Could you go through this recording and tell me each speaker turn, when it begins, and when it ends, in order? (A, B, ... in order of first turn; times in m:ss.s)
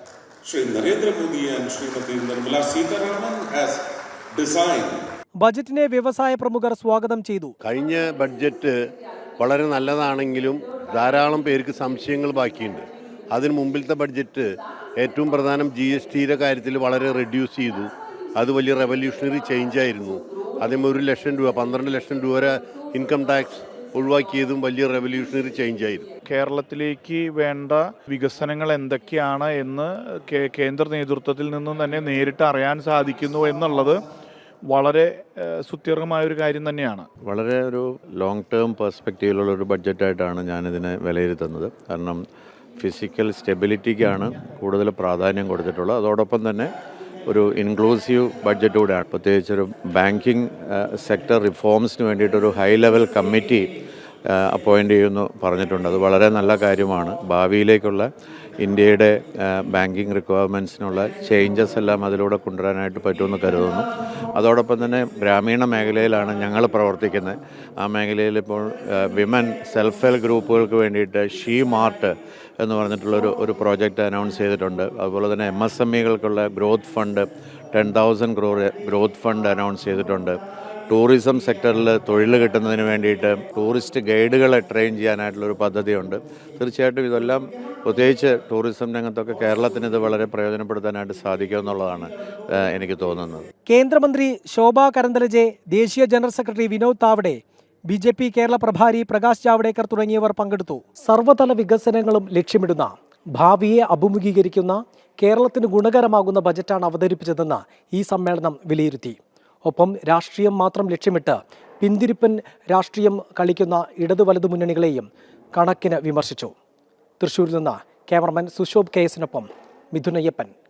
0:00.4-0:05.1 A
0:05.4-0:07.5 B
0:07.6-0:26.1 C
0:26.2-0:34.0 D
0:34.7-0:37.1 D
0:37.2-0:42.2 E
0:42.8-0:46.7 E
0:47.3-0:53.7 E
0:54.3-0:58.1 E
0:58.6-1:20.4 E
1:20.9-1:33.5 E
1:33.7-1:56.5 B
1:57.2-2:00.5 B